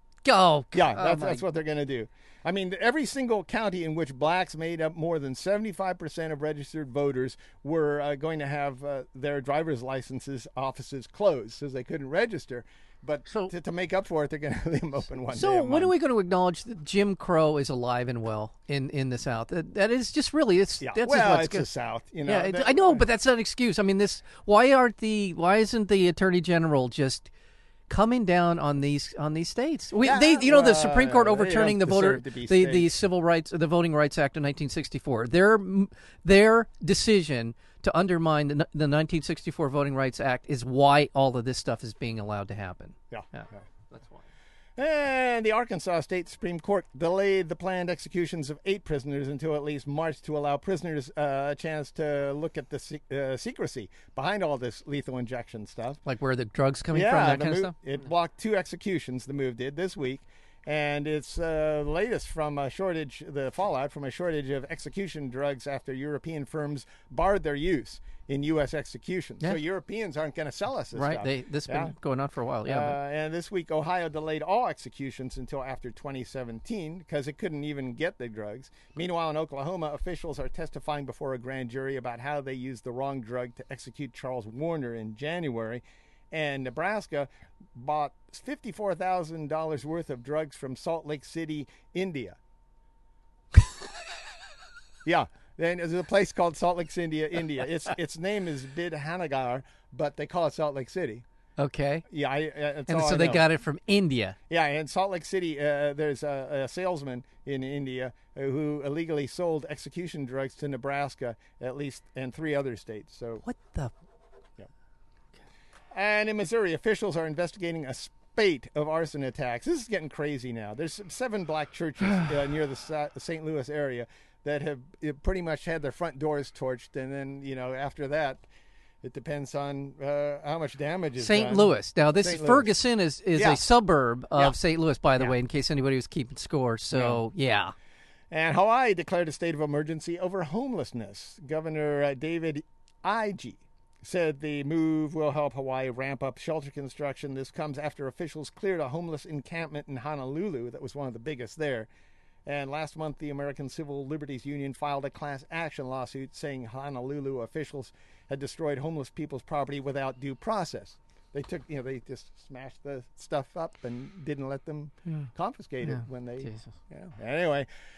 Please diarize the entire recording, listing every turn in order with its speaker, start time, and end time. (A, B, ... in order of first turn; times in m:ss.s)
0:00.2-0:01.4 A
0:00.7-0:15.9 B
0:15.3-0:21.7 A
0:20.8-0:23.0 B
0:22.2-0:27.3 A
0:27.9-0:44.2 A
0:30.0-0:32.9 B
0:43.1-0:43.6 B
0:44.8-0:56.0 B
0:56.0-0:57.7 A
0:56.9-1:11.9 B
1:10.9-1:13.0 A
1:12.6-1:32.4 B
1:35.0-1:41.2 B
1:41.6-1:42.0 A
1:42.1-1:43.5 B
1:42.9-1:44.4 A
1:44.5-1:53.4 B
1:53.4-1:53.9 A
1:55.9-2:08.4 B
2:09.0-2:12.7 B
2:11.2-2:17.7 A
2:13.4-2:13.6 B
2:16.9-2:17.2 B
2:18.3-2:31.9 B
2:32.4-2:47.7 B
2:45.8-2:46.7 A